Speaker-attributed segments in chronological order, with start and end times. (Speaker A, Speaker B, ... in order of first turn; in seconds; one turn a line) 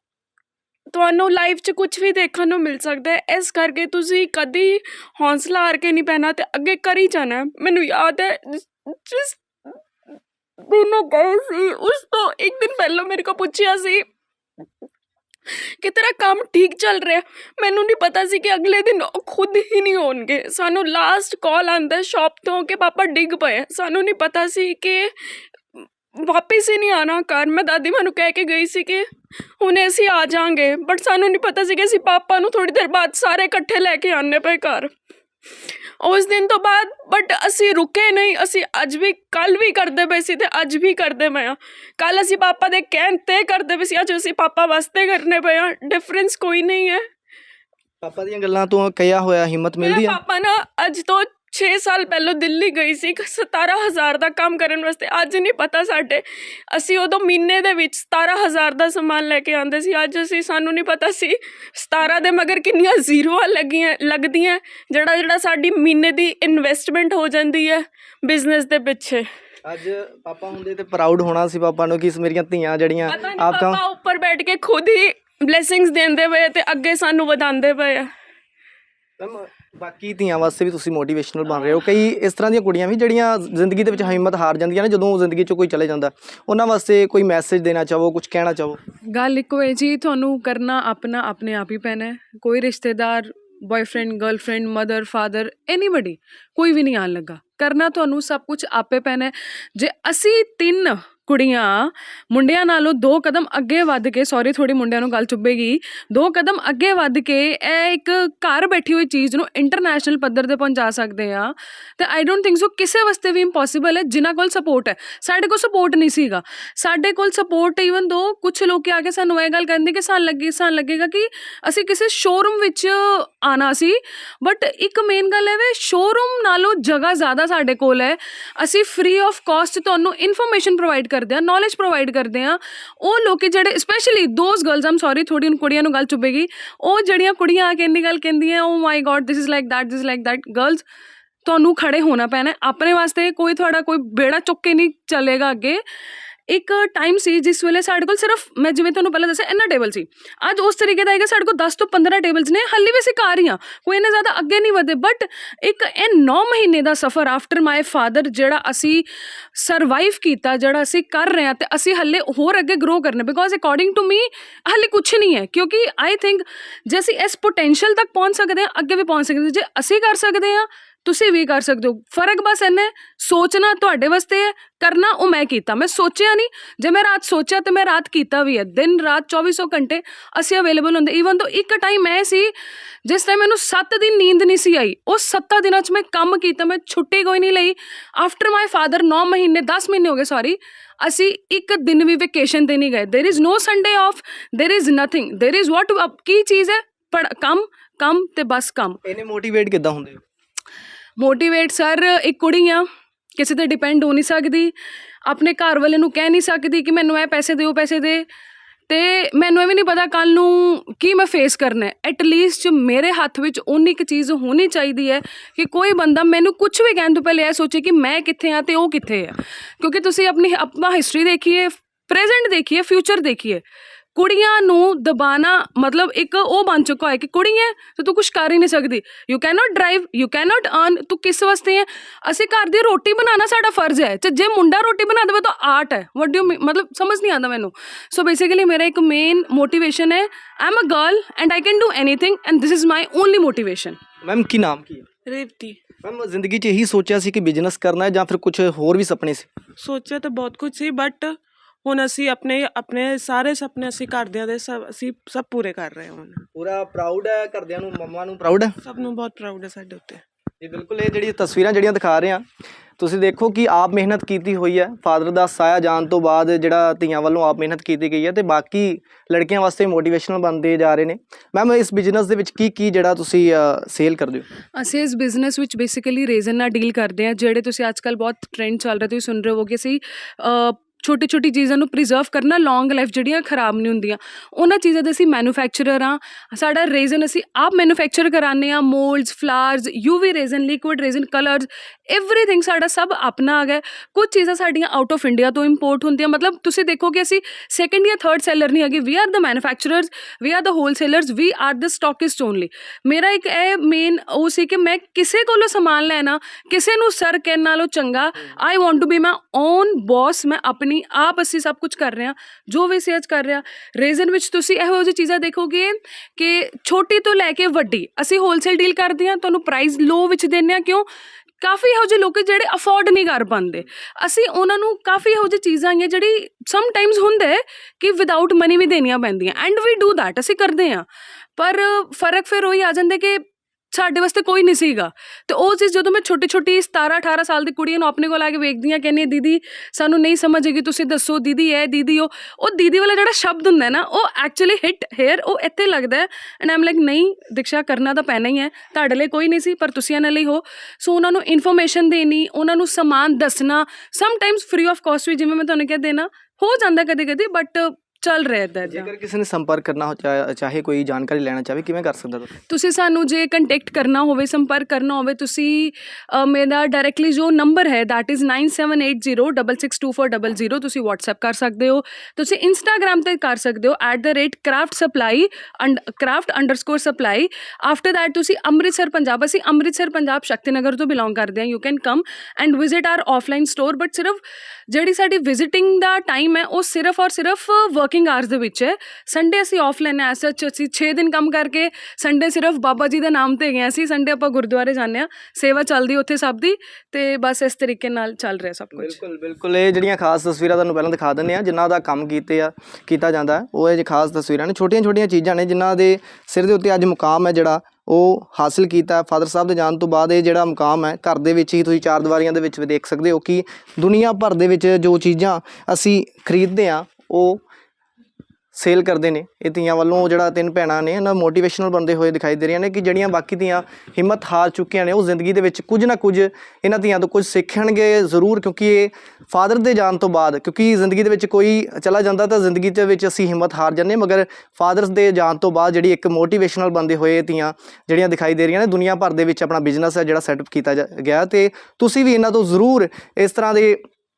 Speaker A: 0.9-9.7
Speaker A: 10.6-14.0
Speaker A: 15.5-34.9
Speaker A: 36.0-47.0
Speaker B: 48.0-50.2
Speaker A: 49.8-69.3
Speaker B: 69.6-73.8
Speaker A: 73.1-78.1
Speaker B: 79.2-88.8
Speaker C: 89.1-140.8
Speaker C: 141.4-145.8
Speaker C: 146.5-199.0
Speaker B: 199.0-200.2
Speaker C: 201.2-204.7
Speaker C: 205.2-208.3
Speaker C: 208.9-223.6
Speaker C: 224.1-244.0
Speaker B: 244.2-245.1
Speaker B: 246.0-249.5
Speaker D: 250.2-251.2
Speaker D: 251.9-256.3
Speaker C: 255.0-255.3
Speaker B: 256.5-258.7
Speaker D: 259.8-260.0
Speaker B: 260.6-262.4
Speaker B: 263.0-274.4
Speaker C: 274.8-321.1
Speaker C: 321.6-359.1
Speaker B: 358.8-362.5
Speaker C: 362.7-399.2
Speaker B: 398.9-417.6
Speaker B: 418.7-444.0